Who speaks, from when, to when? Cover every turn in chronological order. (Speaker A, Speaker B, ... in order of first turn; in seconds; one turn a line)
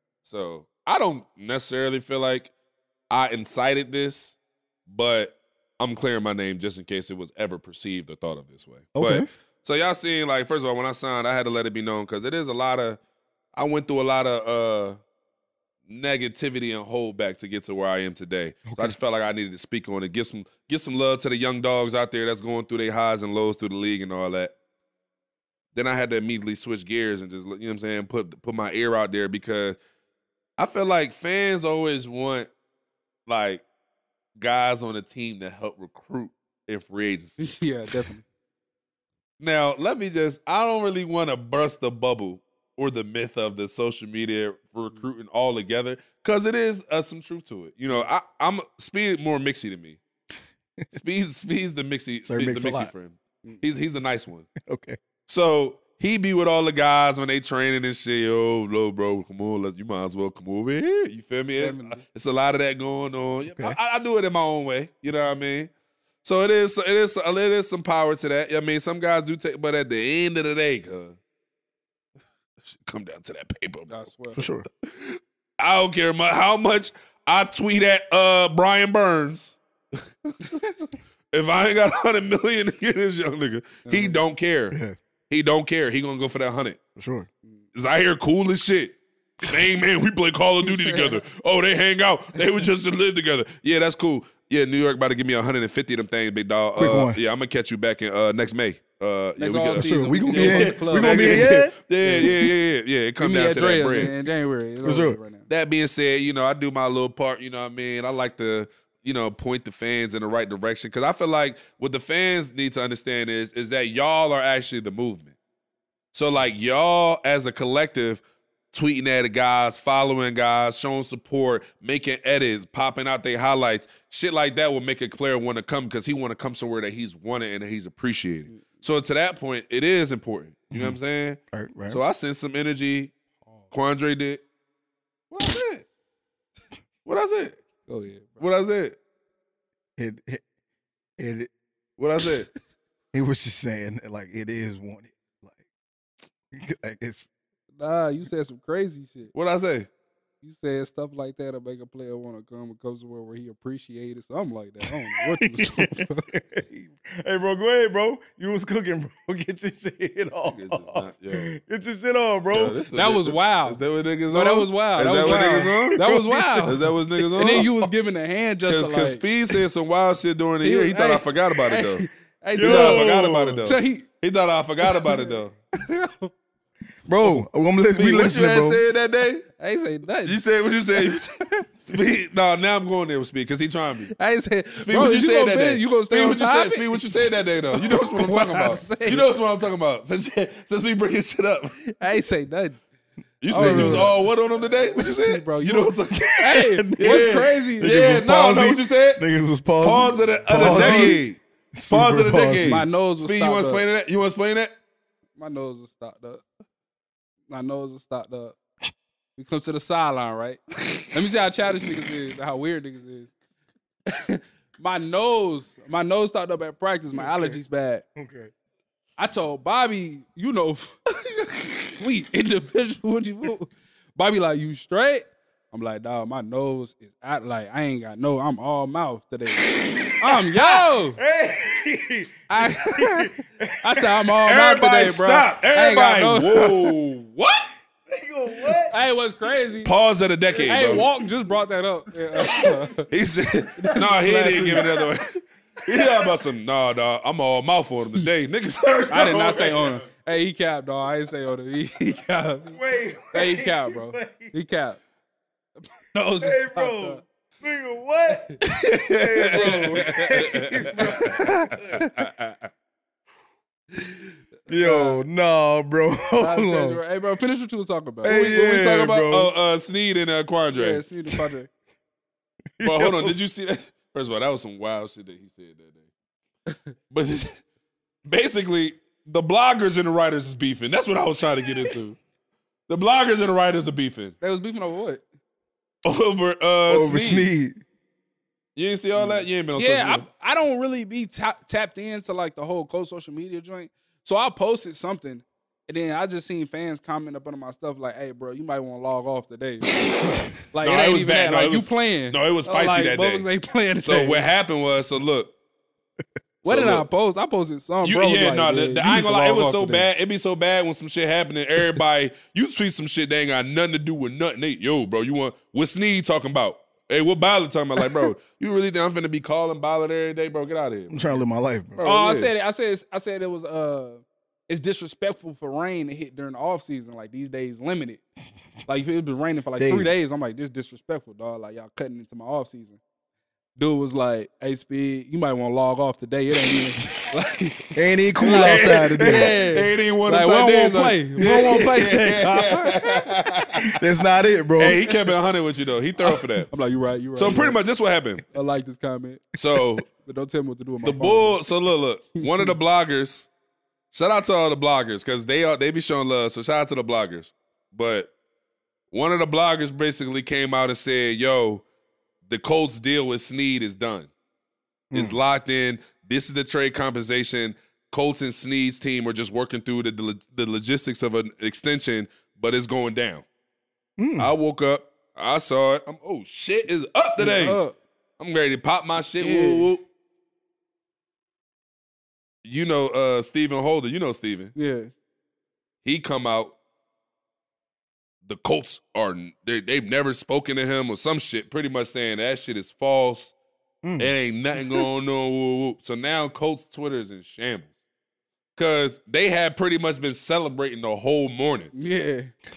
Speaker A: 0.2-2.5
Speaker A: 3.1-13.0
Speaker B: 8.9-9.3
Speaker A: 13.5-15.0
Speaker A: 15.8-24.5
Speaker B: 18.7-18.9
Speaker A: 25.7-29.8
Speaker A: 30.6-32.5
Speaker A: 33.2-33.6
Speaker A: 34.4-37.4
Speaker C: 37.4-38.2
Speaker A: 39.4-50.0
Speaker A: 50.9-54.5
Speaker B: 52.2-52.9
Speaker B: 54.6-55.0
Speaker A: 55.2-65.7
Speaker C: 61.6-62.0
Speaker B: 63.5-63.8
Speaker A: 66.2-71.2
Speaker A: 72.7-74.0
Speaker C: 73.9-74.4
Speaker B: 74.3-74.6
Speaker A: 74.8-79.6
Speaker A: 81.3-84.8
Speaker C: 83.8-84.2
Speaker B: 84.7-85.0
Speaker A: 85.3-86.8
Speaker B: 87.0-87.3
Speaker A: 87.7-104.1
Speaker C: 90.6-91.2
Speaker B: 96.8-97.2
Speaker C: 99.4-102.3
Speaker B: 99.7-102.4
Speaker C: 103.2-105.5
Speaker B: 104.8-105.2
Speaker A: 105.5-115.3
Speaker A: 116.1-133.1
Speaker C: 128.5-128.8
Speaker B: 130.7-131.0
Speaker B: 131.5-132.0
Speaker C: 133.5-133.7
Speaker A: 133.7-134.4
Speaker A: 135.3-135.9
Speaker A: 137.0-137.6
Speaker C: 137.9-138.4
Speaker A: 138.4-139.0
Speaker B: 140.0-140.4
Speaker B: 141.2-141.5
Speaker A: 142.0-142.5
Speaker B: 143.1-145.6
Speaker B: 146.5-147.3
Speaker C: 147.8-149.3
Speaker A: 149.3-149.9
Speaker C: 150.4-156.3
Speaker B: 154.8-162.8
Speaker A: 160.4-161.5
Speaker A: 162.5-166.0
Speaker C: 162.9-169.3
Speaker B: 165.1-167.9
Speaker A: 166.6-167.7
Speaker A: 168.6-172.1
Speaker C: 170.6-174.1
Speaker B: 172.6-173.6
Speaker A: 172.6-175.5
Speaker C: 174.8-176.3
Speaker B: 177.1-178.8
Speaker A: 177.9-179.4
Speaker C: 179.6-180.4
Speaker A: 180.2-184.1
Speaker C: 180.9-181.4
Speaker C: 184.1-189.3
Speaker A: 184.8-191.7
Speaker C: 192.0-192.8
Speaker A: 193.4-196.4
Speaker C: 193.5-198.0
Speaker B: 193.5-194.1
Speaker B: 196.1-202.9
Speaker A: 197.0-199.2
Speaker A: 199.8-204.7
Speaker C: 200.5-201.2
Speaker C: 202.6-203.8
Speaker C: 205.4-206.4
Speaker C: 207.5-208.6
Speaker C: 209.4-213.3
Speaker C: 214.1-218.0
Speaker B: 217.1-217.6
Speaker B: 218.1-218.5
Speaker C: 219.2-231.2
Speaker B: 230.6-234.2
Speaker C: 232.5-236.9
Speaker A: 234.4-237.7
Speaker B: 238.1-239.0
Speaker C: 238.9-239.9
Speaker A: 239.8-241.1
Speaker B: 240.5-241.5
Speaker C: 240.6-243.1
Speaker B: 242.3-242.7
Speaker A: 243.1-245.3
Speaker C: 243.8-244.8
Speaker B: 244.7-245.0
Speaker A: 245.8-250.0
Speaker C: 249.1-252.8
Speaker B: 252.7-254.5
Speaker C: 253.3-255.0
Speaker C: 256.1-257.2
Speaker B: 256.4-262.0
Speaker C: 258.3-258.6
Speaker A: 258.6-261.3
Speaker C: 259.4-262.2
Speaker A: 262.0-262.6
Speaker B: 264.7-267.0
Speaker C: 264.8-265.2
Speaker C: 266.4-268.6
Speaker B: 268.2-269.5
Speaker A: 268.2-271.0
Speaker C: 270.7-271.7
Speaker B: 272.8-273.4
Speaker A: 272.8-276.1
Speaker A: 277.1-277.6
Speaker A: 278.2-282.2
Speaker A: 282.9-284.3
Speaker C: 284.4-285.2
Speaker A: 286.0-287.5
Speaker B: 286.9-287.7
Speaker A: 288.8-290.2
Speaker C: 289.1-300.0
Speaker C: 300.6-304.5
Speaker A: 300.8-303.5
Speaker A: 304.0-305.5
Speaker C: 306.6-310.1
Speaker A: 306.6-307.1
Speaker A: 308.0-321.4
Speaker B: 321.1-322.0
Speaker A: 322.0-322.5
Speaker C: 322.0-328.2
Speaker C: 328.8-333.0
Speaker B: 329.8-330.1
Speaker C: 333.8-343.3
Speaker B: 337.9-339.6
Speaker A: 338.4-343.9
Speaker B: 341.4-341.9
Speaker B: 343.9-345.0
Speaker A: 344.8-346.7
Speaker C: 346.2-347.8
Speaker A: 347.3-348.4
Speaker C: 348.5-349.5
Speaker A: 349.6-350.1
Speaker C: 350.1-351.6
Speaker A: 351.0-353.5
Speaker C: 352.4-352.7
Speaker A: 354.1-358.3
Speaker A: 359.1-361.8
Speaker A: 362.4-364.3
Speaker B: 365.1-365.4
Speaker A: 365.1-373.4
Speaker B: 374.2-374.5
Speaker A: 374.4-377.8
Speaker C: 377.4-377.9
Speaker A: 378.4-380.0
Speaker C: 379.4-379.9
Speaker A: 382.6-384.7
Speaker C: 384.7-385.1
Speaker A: 386.0-386.8
Speaker A: 388.4-393.6
Speaker B: 394.0-394.3
Speaker A: 394.2-397.9
Speaker A: 398.7-401.9
Speaker C: 401.9-402.5